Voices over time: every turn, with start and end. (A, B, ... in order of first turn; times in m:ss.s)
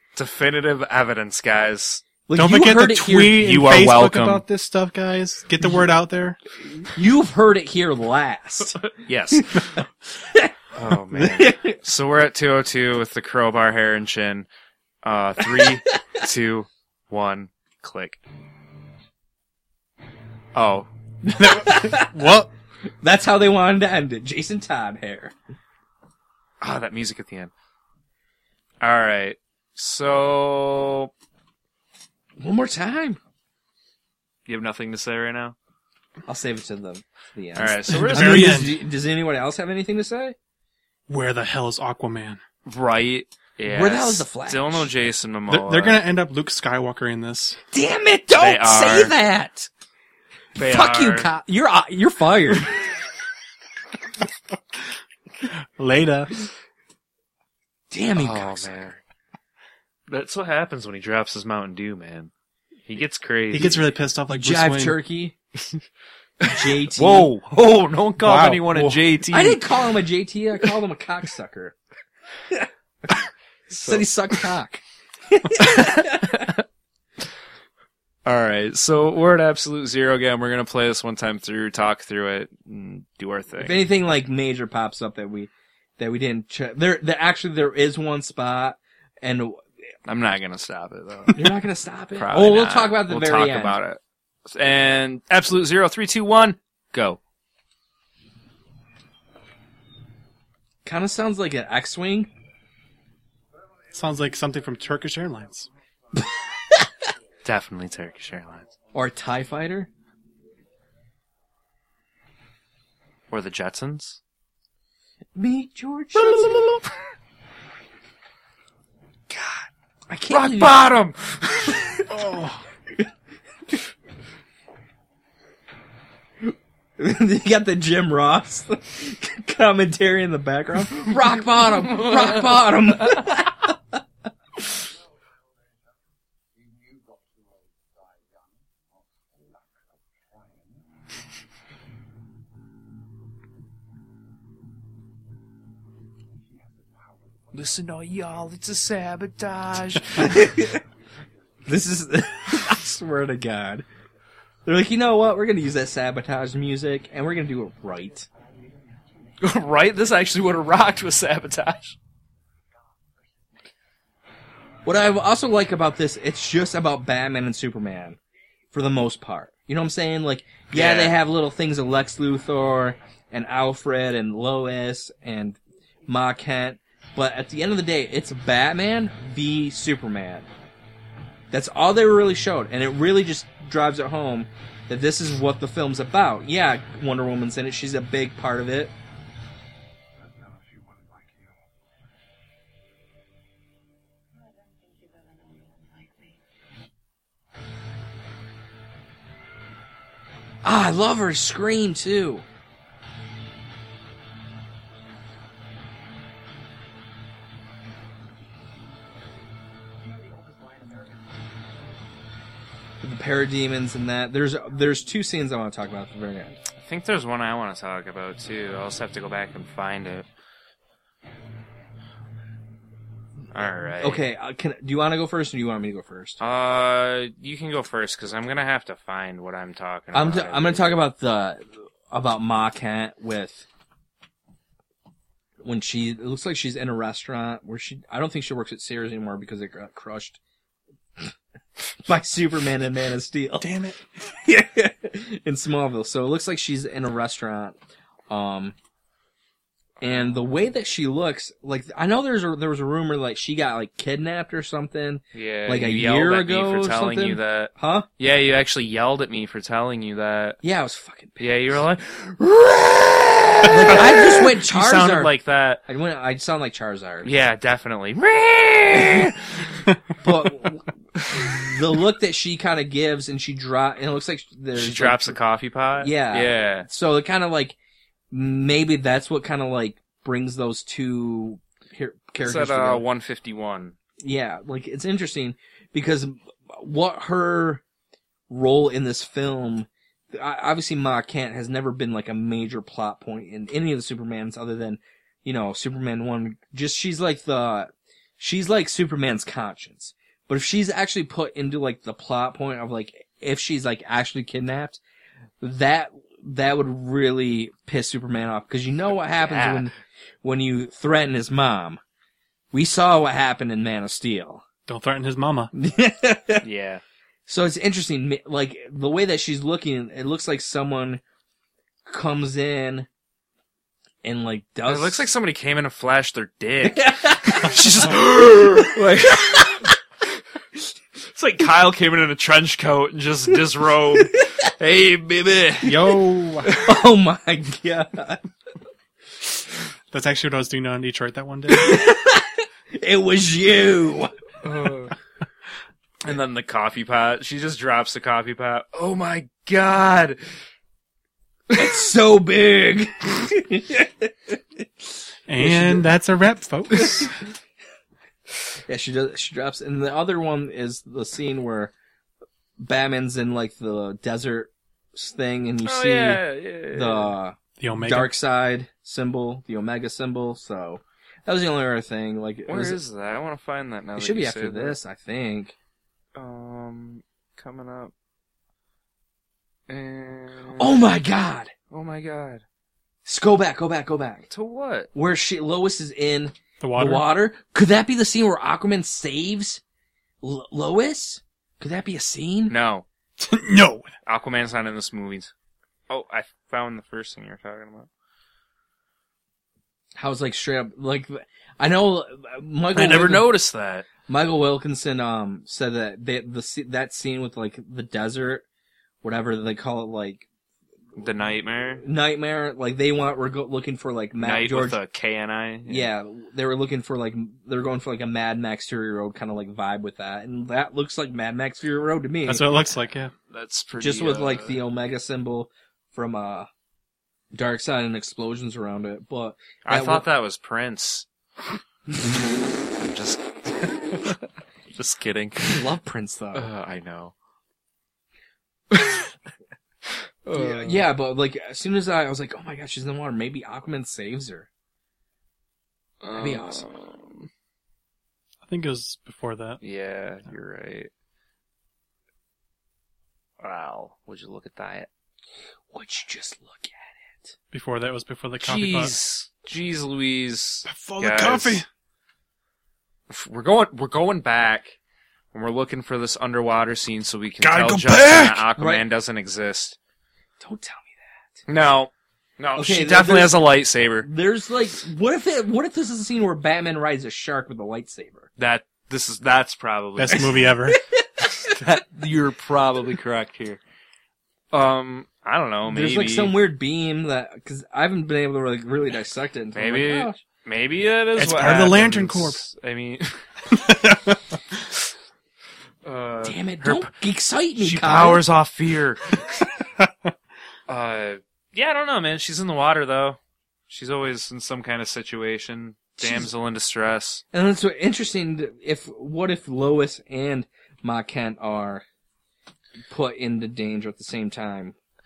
0:00.2-0:02.0 A
0:02.2-0:03.4 B
0:02.3-0:06.4 C
0:03.4-0:04.4 A
0:06.8-0:10.5 B
0:08.9-0:09.8 A
0:10.8-0:14.5 A
0:11.1-0:11.8 B
0:15.0-0:18.2 A
0:20.5-0:20.9 A
0:21.2-0:22.3 B
0:21.4-0:22.5 C
0:23.0-0:25.3 B
0:26.6-0:27.5 A
0:28.8-0:31.1 A
0:32.4-0:33.2 B
0:34.4-0:35.5 A
0:36.3-0:40.3 B
0:37.5-0:38.6 A
0:37.9-0:38.7 C
0:41.1-0:42.4 C
0:42.6-0:46.0 A
0:43.6-0:44.9 B
0:45.5-0:47.6 C
0:47.7-0:49.7 B
0:48.3-0:49.1 A
0:50.6-0:51.3 A
0:50.6-0:52.8 B
0:55.4-0:56.5 C
0:57.9-0:58.7 B
0:58.2-0:59.0 A
1:00.1-1:02.3 A
1:02.8-1:03.8 A
1:03.5-1:05.0 C
1:04.3-1:05.4 B
1:06.4-1:09.6 A
1:06.4-1:07.3 B
1:08.2-1:08.8 C
1:08.7-1:11.8 B
1:12.5-1:13.2 B
1:13.7-1:14.0 A
1:13.7-1:16.5 B
1:15.6-1:16.5 A
1:18.2-1:23.8 A
1:23.6-1:29.6 B
1:30.0-1:31.5 A
1:31.3-1:33.8 B
1:32.1-1:37.2 A
1:40.8-1:42.3 B
1:43.9-1:45.7 C
1:46.2-1:46.9 B
1:47.4-1:48.7 A
1:48.9-1:49.9 B
1:53.3-1:54.2 A
1:55.3-1:56.6 B
1:56.3-1:56.8 A
1:59.3-1:59.7 A
2:00.1-2:00.8 B
2:00.3-2:02.1 A
2:02.1-2:02.6 C
2:07.0-2:13.8 B
2:11.9-2:12.5 A
2:27.5-2:30.5 A
2:30.2-2:30.8 B
2:31.7-2:33.8 B
2:34.6-2:38.3 B
2:39.4-2:42.0 A
2:44.8-2:48.2 B
2:48.7-3:00.5 B
2:50.7-2:51.1 A
3:01.5-3:08.9 B
3:20.6-3:22.4 B
3:33.0-3:36.6 B
3:36.7-3:40.2 A
3:43.5-3:44.2 A
3:44.0-3:46.4 B
3:46.4-3:51.0 A
3:50.1-3:53.6 B
3:55.6-4:00.4 B
4:02.0-4:03.7 B
4:03.6-4:04.0 C
4:04.3-4:07.7 B
4:08.3-4:08.7 B
4:10.0-4:18.1 B
4:15.3-4:20.6 A
4:20.6-4:21.4 B
4:21.4-4:25.8 A
4:23.6-4:25.3 B
4:25.9-4:27.3 B
4:27.2-4:29.7 A
4:30.2-4:35.4 B
4:34.7-4:36.9 A
4:36.0-4:37.8 B
4:38.3-4:43.0 B
4:42.4-4:44.0 A
4:44.2-4:47.8 B
4:48.5-5:05.0 B
5:05.6-5:12.0 B
5:09.3-5:09.9 A
5:12.7-5:14.6 B
5:14.9-5:15.7 C
5:15.7-5:16.6 B
5:16.6-5:17.0 A
5:17.5-5:21.2 B
5:22.1-5:23.1 B
5:24.2-5:25.3 B
5:24.9-5:29.9 A
5:26.8-5:29.9 B
5:31.3-5:36.2 A
5:34.2-5:34.7 B
5:35.8-5:36.8 C
5:36.8-5:38.4 B
5:40.1-5:42.0 C
5:41.7-5:44.4 B
5:44.6-5:45.1 A
5:46.2-5:50.4 A
5:51.7-5:52.0 A
5:51.7-5:54.6 B
5:55.5-5:57.3 C
5:55.6-5:56.1 B
5:56.9-5:57.3 B
5:58.9-6:01.9 B
6:02.8-6:13.0 B
6:05.8-6:07.3 A
6:07.8-6:08.3 C
6:12.7-6:15.0 A
6:14.2-6:15.7 B
6:16.3-6:18.1 A
6:19.9-6:21.2 A
6:20.8-6:21.7 B
6:21.9-6:22.6 A
6:23.2-6:24.5 B
6:24.5-6:25.1 A
6:25.1-6:29.8 B
6:26.8-6:27.3 C
6:30.4-6:32.8 B
6:32.7-6:33.0 A
6:33.4-6:34.1 C
6:34.2-6:35.5 A
6:36.1-6:38.1 A
6:40.1-6:43.5 B
6:42.9-6:44.1 A
6:44.3-6:48.6 B
6:49.2-6:50.4 B
6:51.2-6:52.0 A
6:52.0-6:55.0 B
6:54.4-6:56.1 A
6:55.9-7:02.7 B
7:02.5-7:03.3 C
7:03.5-7:04.8 A
7:04.0-7:06.7 B
7:07.5-7:10.2 B
7:09.8-7:11.2 A
7:13.0-7:14.4 A
7:14.9-7:15.8 A
7:15.6-7:16.7 B
7:16.5-7:17.3 A
7:18.9-7:19.3 A
7:20.4-7:21.0 A
7:20.5-7:24.7 B
7:26.2-7:27.5 A
7:26.4-7:26.8 B
7:28.6-7:29.8 C
7:29.8-7:31.1 A
7:33.6-7:35.1 A
7:35.9-7:37.5 B
7:37.7-7:39.1 C
7:38.6-7:41.8 A
7:40.8-7:41.8 C
7:43.3-7:45.0 A
7:45.5-7:50.0 A
7:47.6-7:48.6 C
7:48.8-7:49.0 B
7:50.6-7:51.3 B
7:51.7-7:54.3 A
7:52.8-7:53.6 B
7:54.2-7:58.5 B
7:58.6-8:00.7 A
8:00.2-8:01.0 C
8:01.0-8:01.8 B
8:01.6-8:03.8 A
8:04.7-8:06.5 A
8:05.9-8:10.4 B
8:09.7-8:13.4 A
8:11.4-8:12.6 C
8:13.7-8:14.8 C
8:16.0-8:17.1 A
8:16.4-8:18.4 B
8:17.8-8:19.7 A
8:20.0-8:20.3 C
8:20.9-8:23.4 A
8:23.9-8:27.4 A
8:26.2-8:26.5 B
8:27.5-8:32.0 B
8:33.1-8:35.0 B